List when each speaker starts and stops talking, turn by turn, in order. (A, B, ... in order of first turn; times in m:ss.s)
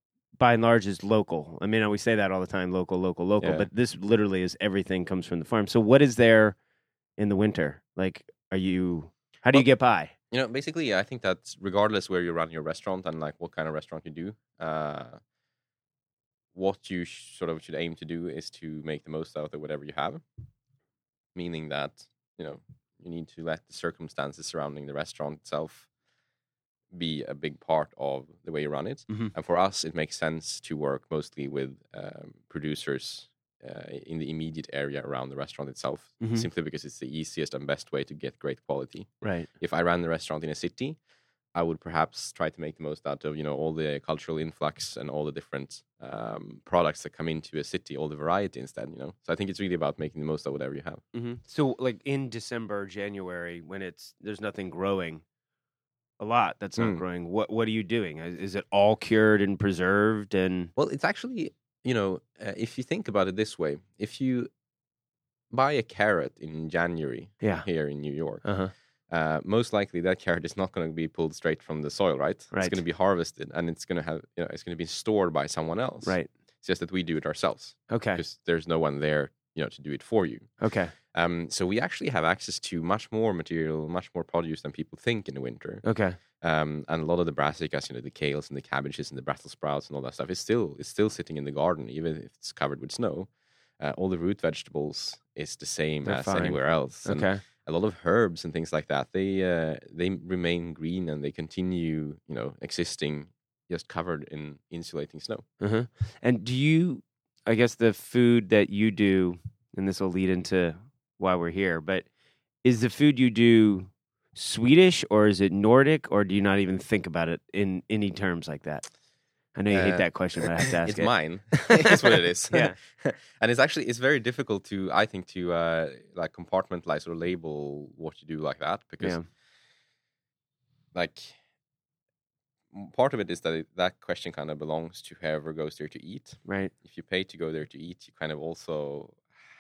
0:00.4-0:06.6 A
0:03.4-0:03.7 B
0:07.2-0:10.1 A
0:10.3-0:15.2 B
0:16.5-0:20.2 B
0:21.4-0:25.9 B
0:26.9-0:41.0 B
0:36.2-0:36.5 A
0:39.2-0:39.5 A
0:41.5-0:51.0 B
0:51.1-0:55.2 A
0:56.2-1:00.7 A
0:56.8-0:57.0 B
1:00.8-1:04.5 B
1:05.5-1:08.4 B
1:07.4-1:07.7 A
1:08.4-1:08.7 A
1:09.1-1:20.5 B
1:12.5-1:12.8 A
1:17.9-1:18.2 A
1:20.6-1:20.9 A
1:21.1-1:25.8 B
1:25.8-1:26.2 A
1:26.4-1:45.4 B
1:36.0-1:37.4 A
1:45.6-1:52.1 A
1:52.6-1:58.9 A
1:59.6-2:02.8 A
1:59.7-2:09.2 B
2:10.9-2:11.4 B
2:12.7-2:19.3 B
2:16.4-2:16.7 A